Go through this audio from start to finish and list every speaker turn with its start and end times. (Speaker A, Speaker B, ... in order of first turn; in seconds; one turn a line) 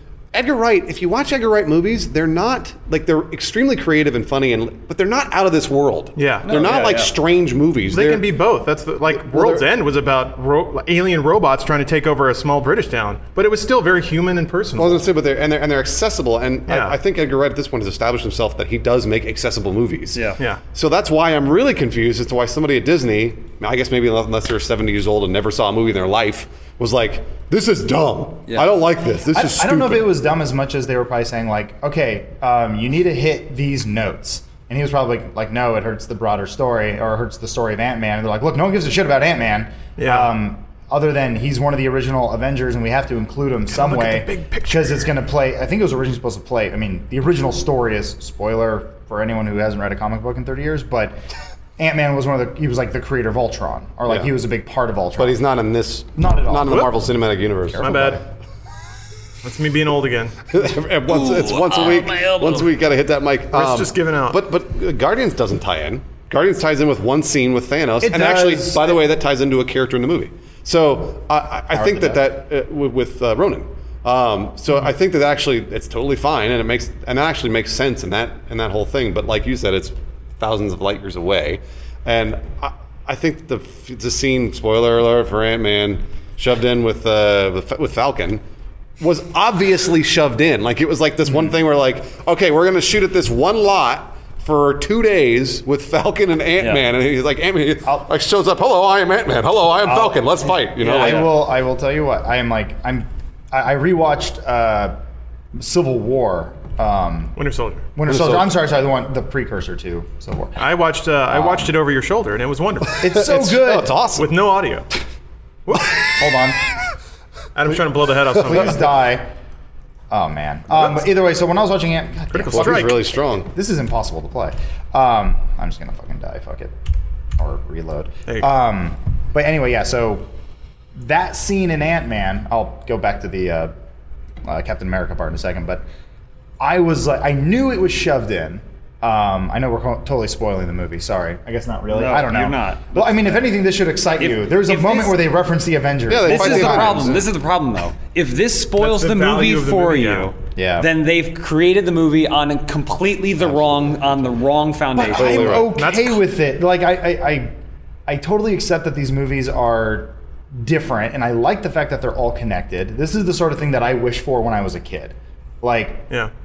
Speaker A: 0.3-8.3
Speaker B: 6.2-6.7
Speaker C: 6.5-7.1
Speaker B: 7.9-15.1
Speaker A: 9.1-9.7
Speaker A: 14.8-30.1
Speaker B: 16.7-17.0
Speaker C: 20.1-20.4
Speaker D: 29.3-51.2
Speaker B: 40.0-40.3
Speaker B: 43.7-45.1
Speaker D: 51.8-55.4
Speaker A: 55.2-58.1
Speaker D: 56.2-57.0
Speaker D: 57.7-58.2
Speaker B: 57.8-58.2
Speaker B: 59.4-60.4
Speaker A: 60.5-88.4
Speaker C: 61.1-62.7
Speaker B: 63.5-64.4
Speaker D: 68.0-69.0
Speaker D: 71.7-72.2
Speaker A: 89.0-101.3
Speaker C: 96.6-96.8
Speaker D: 99.8-105.0
Speaker C: 100.8-101.3
Speaker D: 105.6-107.4
Speaker B: 107.4-107.9
Speaker D: 108.0-110.6
Speaker A: 108.1-108.5
Speaker B: 110.6-113.1
Speaker D: 111.3-111.7
Speaker D: 113.0-114.0
Speaker A: 113.0-114.4
Speaker B: 114.2-114.9
Speaker B: 115.7-116.1
Speaker D: 116.0-116.6
Speaker B: 117.5-118.9
Speaker D: 118.3-119.3
Speaker D: 120.1-126.7
Speaker B: 122.3-123.0
Speaker A: 122.5-123.5
Speaker D: 127.4-130.3
Speaker D: 131.0-133.7
Speaker D: 134.4-135.8
Speaker D: 136.6-147.2
Speaker C: 141.9-143.5
Speaker C: 144.2-145.2
Speaker A: 146.1-147.3
Speaker C: 146.2-155.6
Speaker B: 148.8-150.3
Speaker D: 150.6-150.9
Speaker D: 155.0-157.5
Speaker A: 155.0-155.7
Speaker B: 155.7-156.2
Speaker D: 158.1-166.1